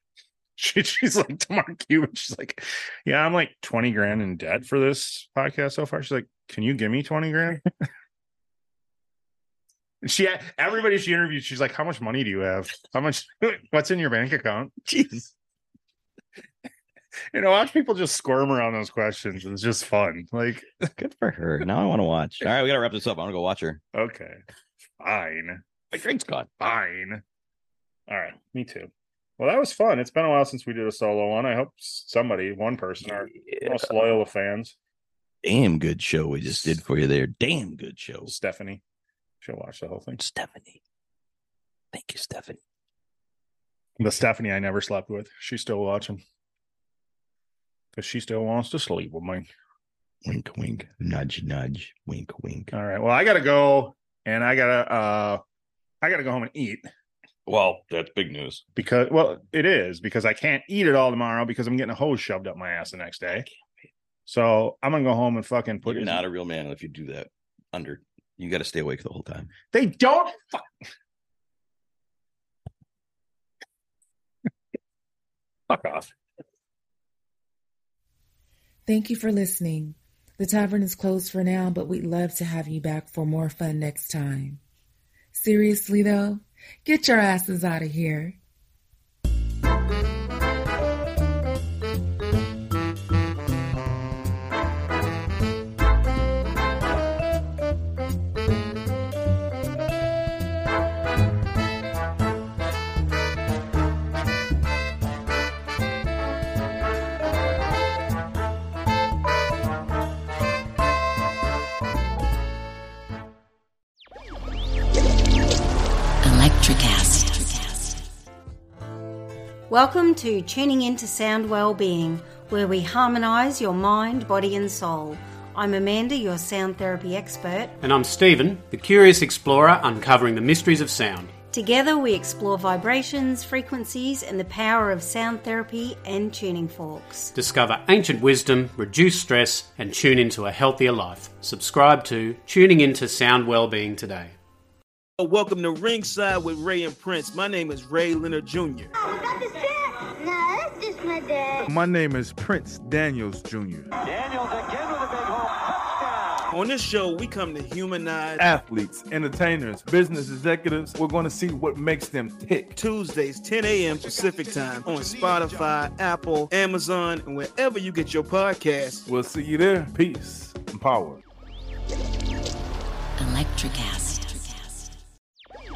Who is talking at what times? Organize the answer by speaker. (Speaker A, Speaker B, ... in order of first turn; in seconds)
Speaker A: 0.6-7.7, 10.0-14.7, 17.3-20.9, 23.9-24.4, 25.0-25.6, 26.6-27.2, 28.1-34.8, 38.3-38.8, 39.4-40.2, 44.0-46.2, 48.0-49.5, 52.7-55.4, 56.0-56.9, 58.8-63.5, 64.3-66.2, 69.7-70.7, 75.7-76.1
Speaker B: 14.8-15.3, 21.0-23.8, 25.9-26.5, 33.3-33.9, 35.4-38.3, 40.2-40.8, 41.9-42.6, 50.2-52.7, 57.5-58.6, 65.9-69.5
Speaker C: 78.9-84.6, 85.3-88.4
Speaker D: 116.2-118.0, 173.2-174.9
Speaker E: 119.7-127.8, 131.5-137.3
Speaker F: 127.8-131.3, 137.3-144.3
Speaker G: 145.2-148.9, 154.3-154.8, 156.5-158.5, 162.7-169.1
Speaker H: 149.0-151.7
Speaker I: 151.7-153.9, 158.4-162.7, 169.1-171.2